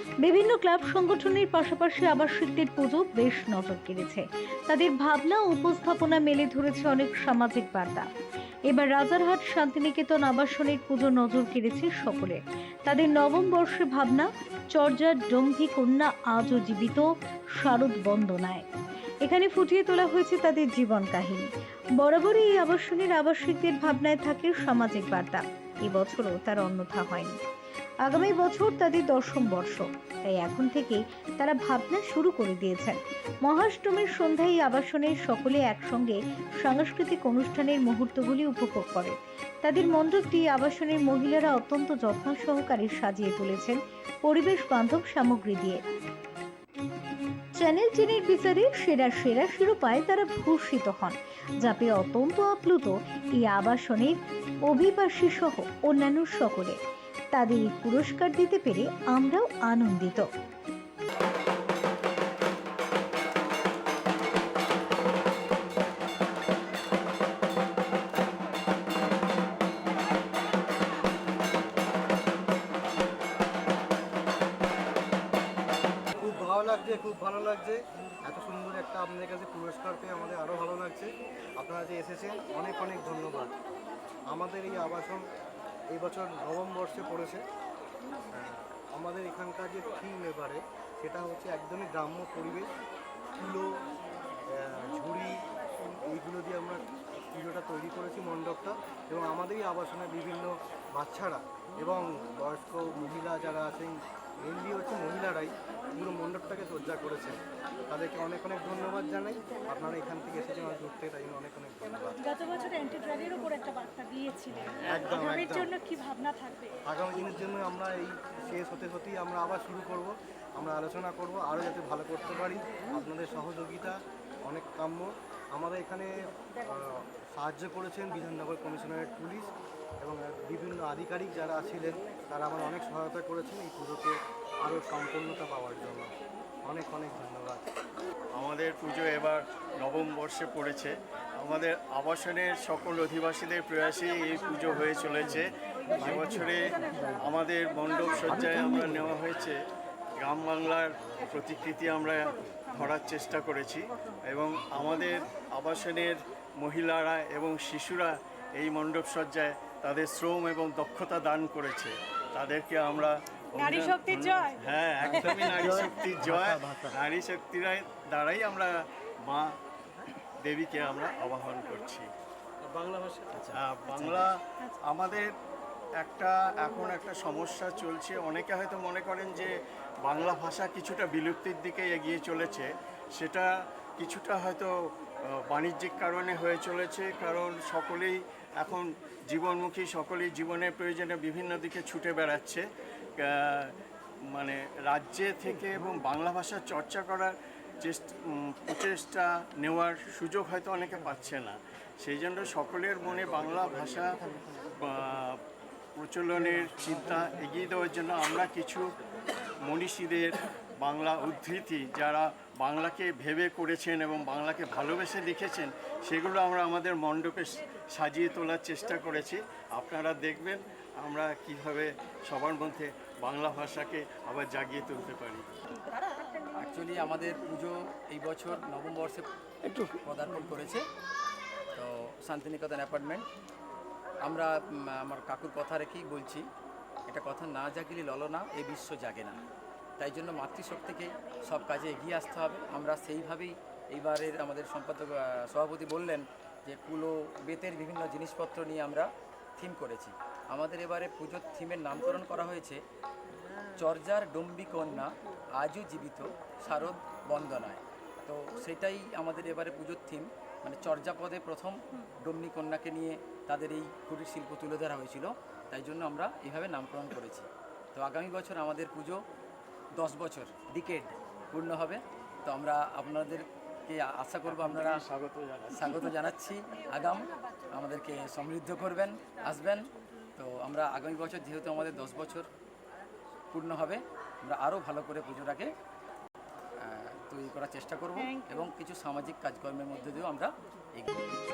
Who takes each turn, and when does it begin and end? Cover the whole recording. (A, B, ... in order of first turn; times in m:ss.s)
0:00.2-0:08.1 A
0:08.7-0:18.6 A
0:19.2-0:27.4 A
0:28.0-0:45.8 A
0:47.6-0:54.2 A
0:54.7-0:56.8 A
0:57.3-1:00.3 A
1:16.2-1:23.5 B
1:24.3-1:25.2 B
1:25.9-1:27.4 B
1:28.3-1:32.7 B
1:33.4-1:33.8 B
1:34.5-1:52.2 B
1:52.2-1:56.7 C
1:54.7-1:55.8 B
1:56.8-2:09.5 B
2:10.0-2:16.1 B
2:16.6-2:17.6 B
2:18.4-2:29.6 D
2:30.2-2:48.7 D
2:43.6-2:44.6 C
2:50.4-2:52.1 D
2:52.7-2:53.2 B
2:53.3-2:54.3 E
2:53.5-2:55.3 D
2:56.0-2:59.5 D
3:00.0-3:04.7 D
3:05.3-3:12.6 D
3:13.2-3:13.7 D
3:14.3-3:24.1 D
3:24.7-3:25.4 D
3:26.0-3:28.9 D
3:29.6-3:45.4 D
3:46.5-3:50.8 E
3:51.7-3:53.2 E
3:54.2-3:56.4 E
3:57.1-3:59.4 E
4:00.0-4:12.8 E
4:13.7-4:29.2 E
4:30.0-4:35.0 E
4:34.4-4:36.1 D
4:35.7-4:39.8 E
4:40.4-4:42.4 E
4:43.5-4:45.7 E
4:46.8-4:51.1 E
4:48.2-4:48.6 C